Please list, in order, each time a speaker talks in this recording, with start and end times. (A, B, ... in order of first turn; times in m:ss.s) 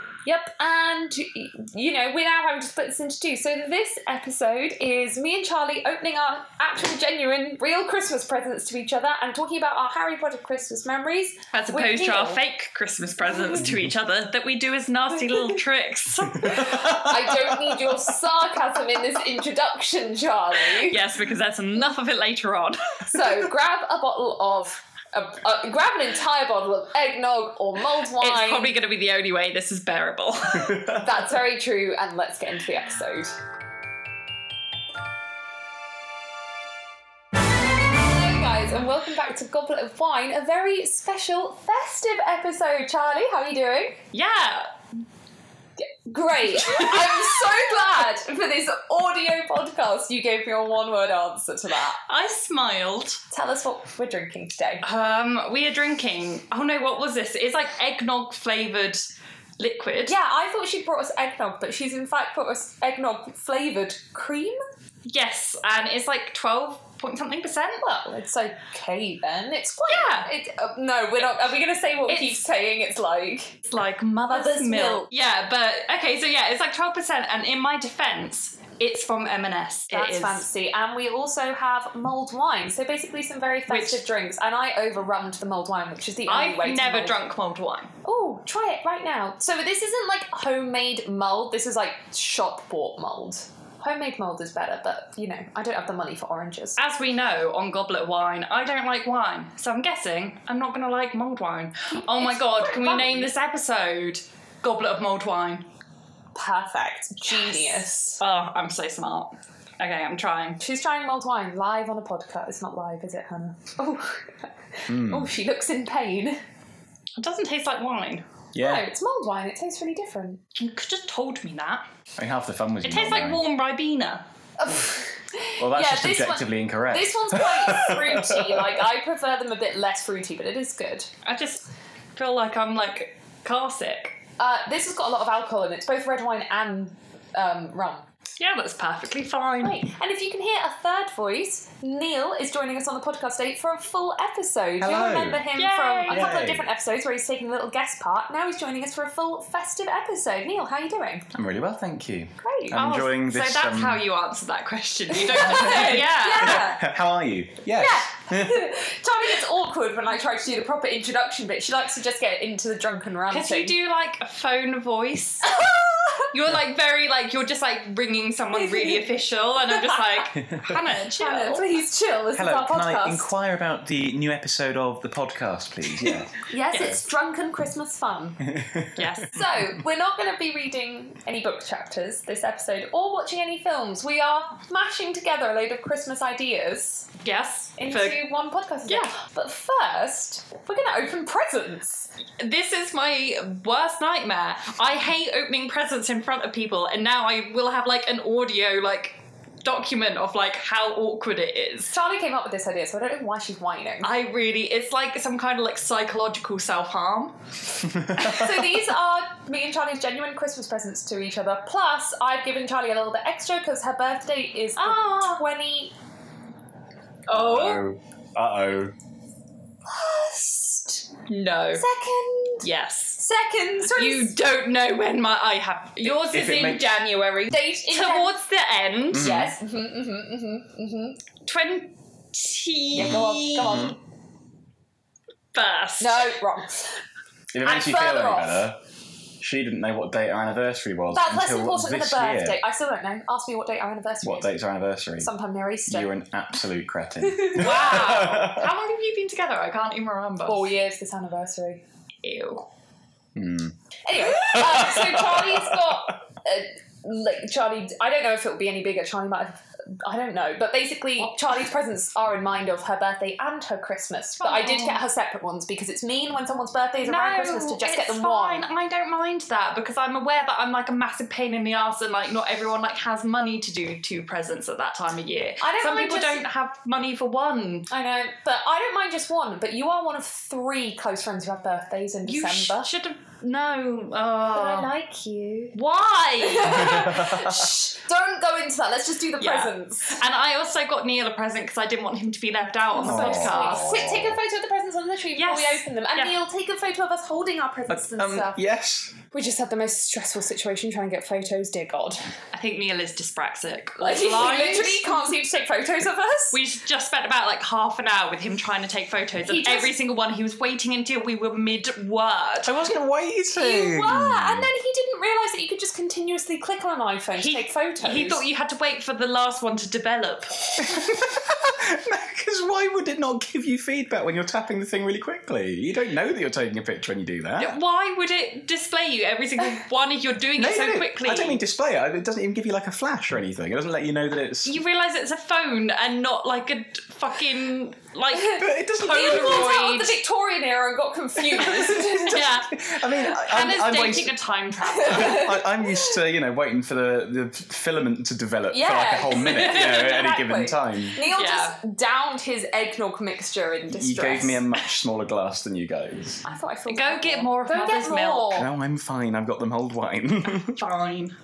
0:00.2-0:12.4 A
0:11.5-0:17.0 B
0:16.4-0:18.1 C
0:16.5-0:21.0 A
0:20.8-0:23.4 B
0:23.1-0:28.8 A
0:28.2-0:31.0 B
0:30.8-0:33.3 A
0:38.0-0:44.0 A
0:44.1-0:44.7 B
0:45.8-0:52.0 A
0:46.5-0:48.0 B
0:52.0-0:53.2 B
0:53.3-0:54.8 A
0:54.8-0:59.1 B
0:59.6-1:00.2 B
1:00.1-1:04.6 A
1:05.0-1:07.8 B
1:07.8-1:13.6 A
1:09.9-1:10.3 B
1:12.1-1:12.4 B
1:13.7-1:20.4 B
1:14.3-1:15.1 A
1:19.9-1:27.2 A
1:23.7-1:24.0 B
1:26.3-1:27.9 B
1:28.0-1:36.8 A
1:36.8-1:45.6 B
1:42.1-1:43.3 A
1:46.3-1:48.2 A
1:47.3-1:50.6 B
1:50.6-1:56.4 A
1:54.9-1:55.3 C
1:57.2-1:58.2 B
1:58.5-1:58.9 C
1:58.6-2:00.4 A
2:00.5-2:01.8 B
2:02.2-2:03.4 C
2:02.8-2:04.2 B
2:04.6-2:11.1 A
2:05.6-2:08.8 C
2:11.2-2:11.6 B
2:12.2-2:14.2 B
2:14.4-2:18.0 A
2:18.4-2:19.8 B
2:19.6-2:31.3 A
2:24.8-2:25.4 C
2:25.5-2:26.4 B
2:26.1-2:26.7 C
2:31.3-2:34.0 C
2:32.4-2:32.8 A
2:32.7-2:36.7 B
2:35.1-2:36.9 A
2:35.4-2:38.7 C
2:37.7-2:43.7 A
2:43.3-2:45.5 B
2:45.4-2:46.3 A
2:46.3-2:51.6 B
2:48.6-2:49.0 A
2:49.7-2:50.1 A
2:50.4-2:50.8 C
2:51.2-2:53.3 A
2:52.3-2:56.3 C
2:56.4-2:58.4 A
2:58.4-2:59.2 C
2:59.0-2:59.4 B
2:59.3-3:07.1 A
3:07.2-3:08.2 B
3:07.8-3:12.1 A
3:08.9-3:09.1 B
3:12.4-3:21.9 B
3:21.9-3:24.1 A
3:24.0-3:27.4 B
3:28.0-3:28.4 C
3:28.2-3:35.9 A
3:28.2-3:28.4 B
3:34.8-3:35.4 B
3:37.3-3:38.9 C
3:37.3-3:37.8 B
3:39.9-3:41.0 A
3:41.2-3:41.8 B
3:41.8-3:42.6 A
3:42.6-3:43.2 B
3:43.2-3:44.3 A
3:43.8-3:49.5 B
3:46.0-3:47.0 C
3:47.5-3:48.4 A
3:49.1-3:49.5 C
3:49.1-3:51.2 A
3:51.4-3:53.9 B
3:52.9-3:54.0 A
3:53.0-3:54.0 C
3:55.5-3:56.3 B
3:56.0-3:57.0 A
3:57.5-3:58.8 C
3:57.6-3:58.6 A
3:59.4-4:02.6 C
4:01.1-4:04.5 A
4:04.2-4:05.3 C
4:05.2-4:06.1 A
4:05.9-4:08.7 C
4:07.2-4:08.2 A
4:07.5-4:10.6 B
4:10.5-4:11.8 A
4:12.2-4:12.7 B
4:13.3-4:16.0 C
4:14.0-4:28.6 A
4:24.4-4:25.0 B
4:27.0-4:37.9 B
4:35.6-4:36.4 A
4:37.9-4:42.9 A
4:42.2-4:44.9 B
4:44.5-4:45.8 A
4:45.7-4:47.1 B
4:46.4-4:50.2 A
4:46.8-4:47.7 C
4:49.4-4:54.1 B
4:52.9-4:58.6 A
4:53.0-4:54.4 C
4:55.4-4:56.3 B
4:57.9-4:59.2 C
4:59.3-5:02.3 A
5:02.5-5:05.3 B
5:04.0-5:06.6 A
5:06.5-5:12.8 B
5:09.5-5:09.9 A
5:12.6-5:14.7 C
5:13.5-5:18.4 A
5:17.4-5:20.7 B
5:20.8-5:27.8 C
5:27.6-5:31.6 B
5:30.6-5:34.8 C
5:34.6-5:40.2 B
5:38.3-5:42.5 A
5:38.6-5:39.6 C
5:41.6-5:44.3 C
5:42.2-5:45.5 B
5:44.9-5:46.2 A
5:45.0-5:51.2 C
5:48.7-5:54.6 A
5:49.4-5:50.0 B
5:51.2-5:51.8 B
5:53.9-5:56.4 C
5:56.4-5:58.7 A
5:56.9-5:58.6 B
5:58.5-6:00.8 C
6:00.7-6:01.4 B